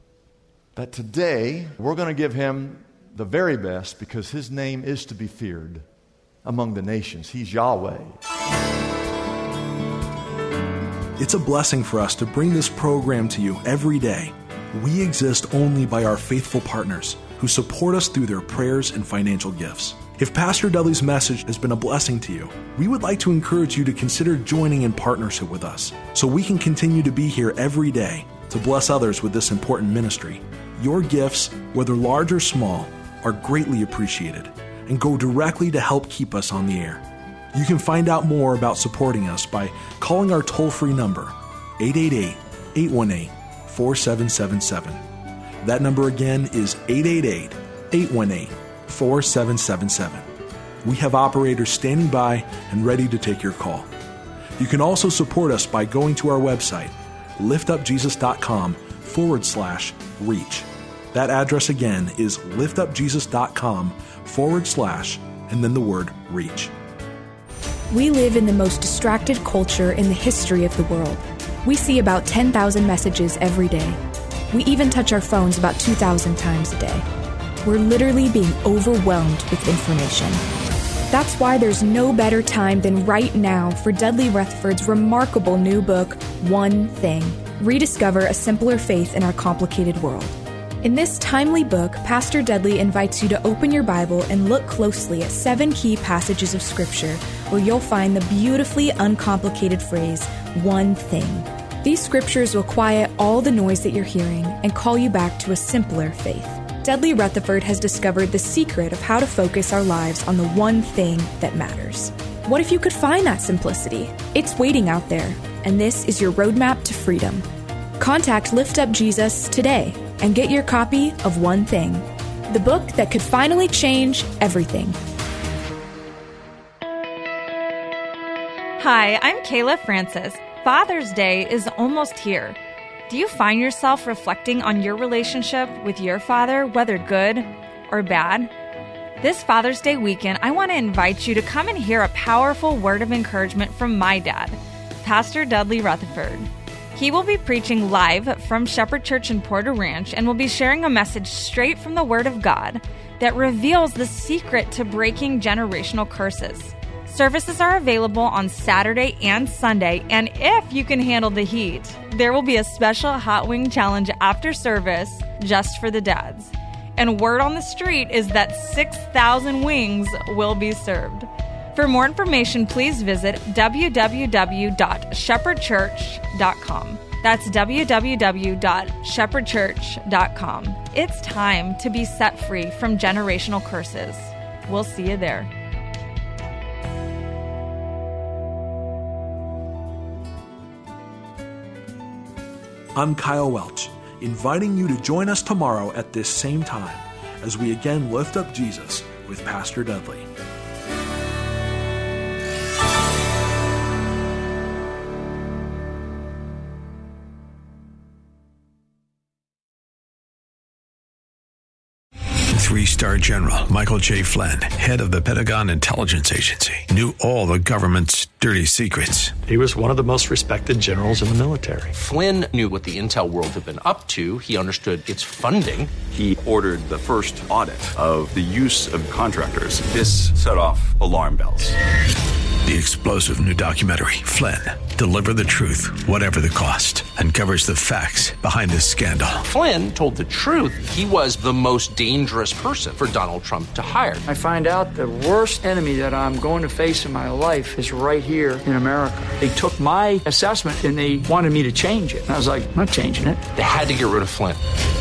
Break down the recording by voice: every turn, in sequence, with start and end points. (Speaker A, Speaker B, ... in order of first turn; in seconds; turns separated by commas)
Speaker A: 0.8-5.8, Speaker A: 6.5-8.2, Speaker B: 11.2-45.0, Speaker B: 45.6-50.3, Speaker B: 50.8-53.9, Speaker B: 54.6-66.7, Speaker C: 67.9-74.0, Speaker C: 74.5-77.0, Speaker C: 77.6-80.4, Speaker C: 81.1-117.5, Speaker C: 118.0-125.0, Speaker D: 128.8-132.6, Speaker D: 133.1-138.5, Speaker D: 139.2-185.5, Speaker B: 192.9-200.3, Speaker E: 212.5-219.4, Speaker F: 219.5-221.9, Speaker G: 221.9-225.9, Speaker H: 226.1-231.8, Speaker E: 232.7-239.4, Speaker G: 239.5-244.2, Speaker I: 244.3-253.5, Speaker G: 253.5-254.6